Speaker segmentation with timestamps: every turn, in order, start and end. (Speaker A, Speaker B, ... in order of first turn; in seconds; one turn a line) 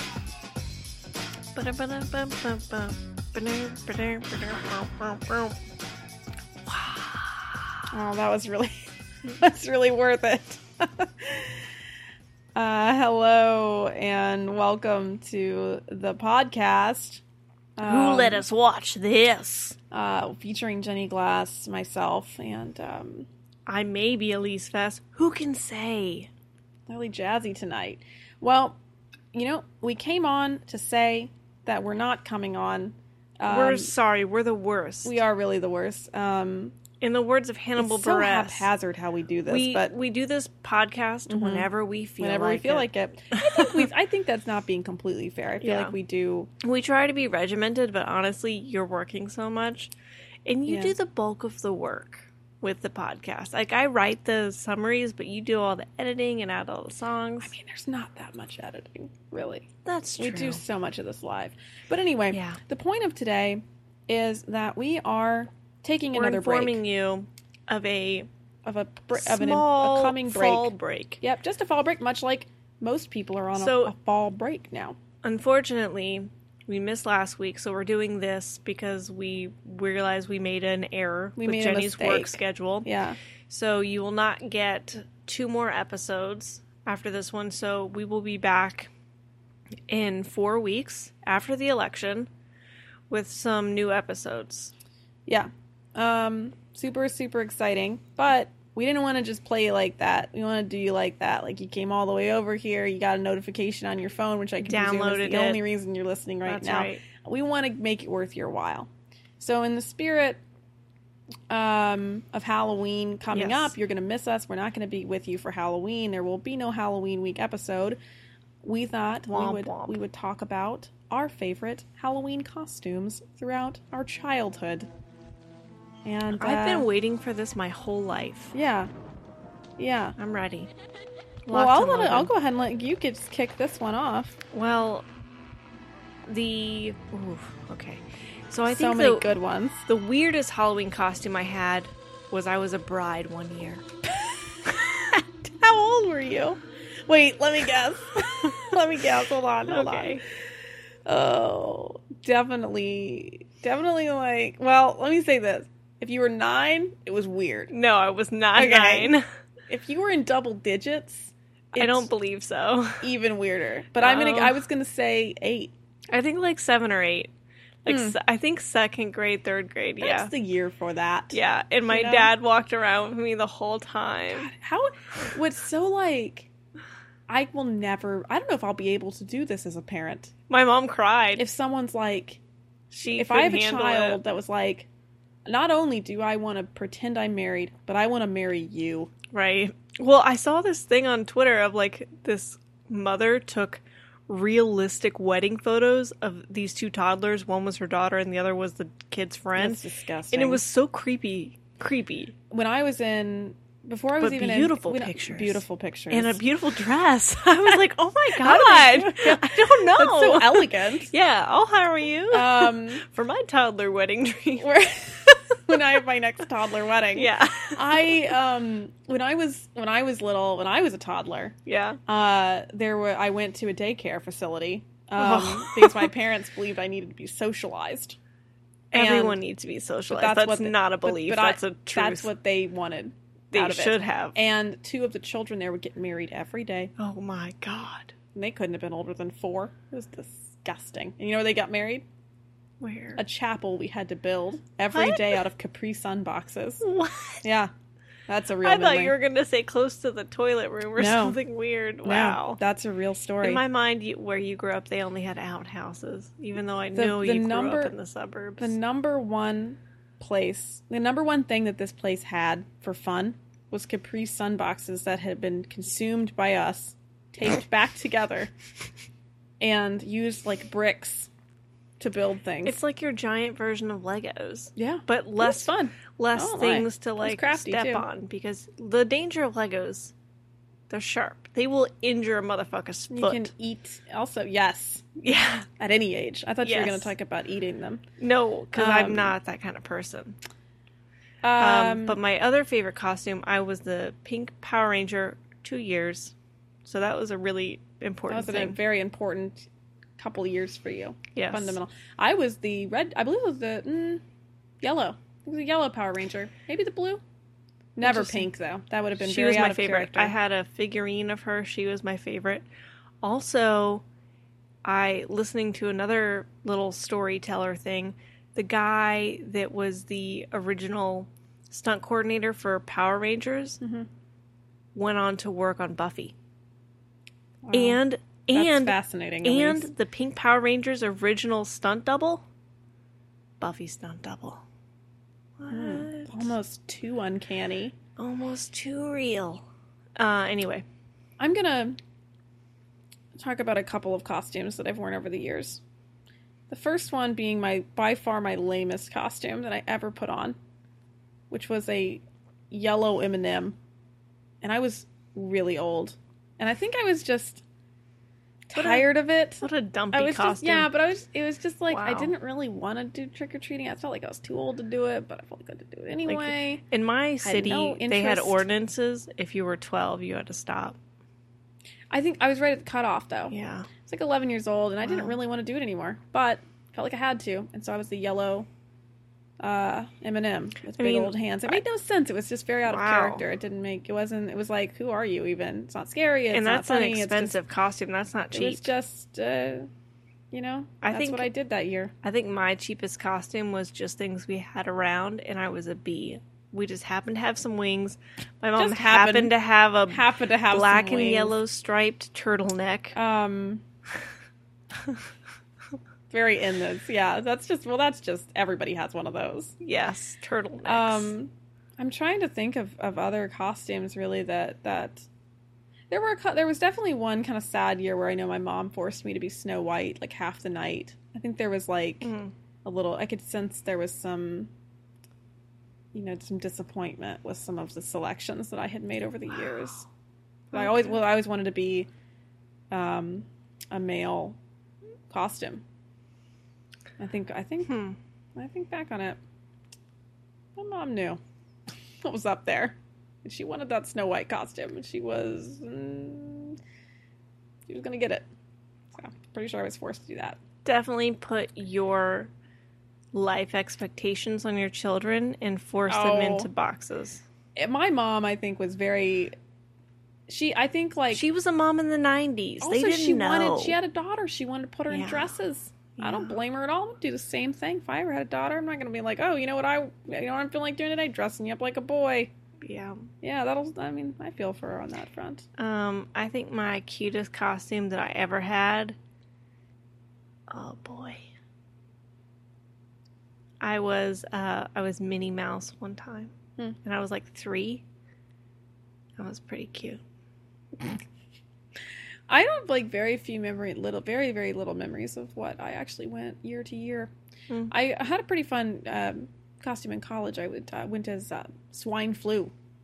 Speaker A: 1.5-5.6
Speaker A: 6.7-7.6
Speaker B: 7.9-11.8
Speaker B: 12.5-17.2
Speaker B: 17.8-18.4
Speaker A: 17.8-19.8
Speaker B: 19.9-23.3
Speaker A: 23.7-26.3
Speaker B: 26.9-28.8
Speaker B: 29.3-33.9
Speaker A: 33.4-35.2
Speaker B: 35.0-36.8
Speaker A: 37.0-38.7
Speaker B: 37.8-39.9
Speaker A: 39.5-43.9
Speaker B: 41.3-46.5
Speaker A: 45.6-46.0
Speaker A: 46.6-49.9
Speaker A: 50.5-57.5
Speaker B: 50.6-50.9
Speaker B: 57.4-66.8
Speaker A: 59.8-60.6
Speaker A: 62.3-62.6
Speaker A: 66.1-68.3
Speaker B: 68.6-75.0
Speaker A: 69.1-71.2
Speaker A: 73.5-73.9
Speaker A: 75.2-82.9
Speaker B: 81.4-83.2
Speaker A: 83.5-88.9
Speaker A: 89.9-92.3
Speaker A: 93.1-94.7
Speaker B: 95.3-110.4
Speaker A: 104.6-105.6
Speaker A: 106.4-107.0
Speaker B: 111.5-118.0
Speaker A: 113.3-113.7
Speaker B: 118.6-124.9
Speaker A: 119.3-120.0
Speaker B: 126.0-126.9
Speaker A: 126.3-128.5
Speaker B: 128.5-128.9
Speaker B: 129.8-130.1
Speaker A: 130.2-130.7
Speaker A: 131.4-132.3
Speaker B: 131.5-134.4
Speaker A: 134.5-135.1
Speaker A: 136.3-139.3
Speaker B: 138.7-139.8
Speaker A: 139.9-143.8
Speaker B: 144.2-150.2
Speaker A: 148.3-148.8
Speaker A: 149.7-150.2
Speaker B: 151.1-157.7
Speaker A: 157.7-159.2
Speaker B: 158.5-159.1
Speaker B: 159.7-162.1
Speaker A: 161.7-163.1
Speaker B: 163.0-165.7
Speaker A: 164.0-164.6
Speaker A: 166.1-167.3
Speaker A: 167.8-170.3
Speaker B: 167.9-168.2
Speaker B: 170.0-172.3
Speaker A: 171.3-174.5
Speaker B: 174.3-176.5
Speaker B: 177.3-180.3
Speaker A: 180.5-181.4
Speaker B: 181.3-182.4
Speaker A: 182.9-184.2
Speaker B: 183.1-184.9
Speaker B: 185.4-189.1
Speaker A: 189.3-202.3
Speaker B: 199.6-200.6
Speaker B: 202.5-206.4
Speaker A: 204.2-214.7
Speaker B: 208.3-211.1
Speaker B: 212.3-213.0
Speaker B: 214.6-221.5
Speaker A: 217.1-218.3
Speaker A: 221.7-222.0
Speaker B: 222.1-228.2
Speaker A: 225.2-226.1
Speaker A: 228.9-232.3
Speaker B: 228.9-229.4
Speaker B: 230.1-236.9
Speaker A: 233.5-234.4
Speaker A: 237.0-238.1
Speaker B: 238.3-242.0
Speaker A: 242.8-243.2
Speaker B: 243.2-246.8
Speaker A: 244.9-245.4
Speaker A: 246.8-247.4
Speaker B: 247.4-247.7
Speaker B: 248.3-249.1
Speaker A: 248.6-252.6
Speaker B: 250.9-251.4
Speaker B: 252.0-253.6
Speaker A: 253.4-258.7
Speaker B: 256.9-257.9
Speaker B: 258.6-268.5
Speaker B: 269.6-271.3
Speaker B: 272.0-272.8
Speaker A: 272.6-280.1
Speaker B: 274.8-278.1
Speaker A: 280.9-283.5
Speaker B: 283.1-285.2
Speaker A: 285.2-285.7
Speaker B: 285.8-288.0
Speaker A: 286.6-287.1
Speaker A: 288.2-290.4
Speaker B: 288.7-289.3
Speaker B: 291.4-292.2
Speaker A: 291.6-296.3
Speaker A: 296.8-298.8
Speaker B: 298.3-304.2
Speaker A: 301.3-301.8
Speaker B: 304.8-307.2
Speaker B: 307.9-310.3
Speaker A: 308.0-308.5
Speaker A: 309.2-312.6
Speaker A: 313.2-314.0
Speaker A: 314.8-323.8
Speaker B: 323.8-324.1
Speaker A: 324.9-326.3
Speaker B: 327.6-328.0
Speaker A: 327.7-332.4
Speaker B: 328.5-329.9
Speaker A: 333.6-334.6
Speaker A: 335.6-336.5
Speaker B: 335.7-337.9
Speaker A: 338.2-339.6
Speaker A: 340.2-340.8
Speaker B: 341.4-342.0
Speaker B: 343.3-345.8
Speaker B: 346.7-350.6
Speaker B: 351.5-353.8
Speaker B: 354.6-357.6
Speaker B: 358.7-366.8
Speaker A: 358.7-359.1
Speaker A: 359.6-360.9
Speaker A: 361.9-362.3
Speaker A: 366.2-371.0
Speaker B: 367.4-368.6
Speaker B: 372.1-378.7
Speaker A: 373.5-373.9
Speaker A: 375.0-375.4
Speaker B: 379.6-387.6
Speaker A: 381.0-381.8
Speaker A: 382.9-383.4
Speaker A: 386.5-388.9
Speaker B: 388.5-389.9
Speaker B: 390.5-392.1
Speaker A: 391.0-391.5
Speaker A: 392.2-403.2
Speaker B: 398.8-399.5
Speaker B: 400.1-401.6
Speaker B: 403.1-403.8
Speaker B: 406.3-409.7
Speaker A: 409.8-411.3
Speaker B: 410.8-415.3
Speaker B: 416.1-422.3
Speaker A: 422.2-422.5
Speaker B: 422.8-424.7
Speaker B: 426.1-430.1
Speaker A: 430.7-431.1
Speaker B: 430.7-432.1
Speaker B: 432.9-434.6
Speaker B: 435.3-435.8
Speaker B: 437.2-437.9
Speaker A: 437.9-438.2
Speaker B: 438.5-439.4
Speaker B: 440.8-441.4
Speaker B: 442.2-446.8
Speaker B: 447.9-448.5
Speaker B: 449.1-450.6
Speaker A: 450.8-452.5
Speaker A: 453.3-457.4
Speaker B: 456.1-456.7
Speaker B: 457.8-459.5
Speaker B: 460.5-461.4
Speaker A: 461.3-464.0
Speaker B: 462.8-472.5
Speaker A: 465.1-465.5
Speaker A: 466.1-466.6
Speaker A: 472.8-473.3
Speaker B: 473.4-475.6
Speaker A: 475.8-479.1
Speaker A: 480.7-481.4
Speaker A: 483.8-488.0
Speaker A: 489.4-490.2
Speaker B: 492.5-497.3
Speaker B: 497.9-502.7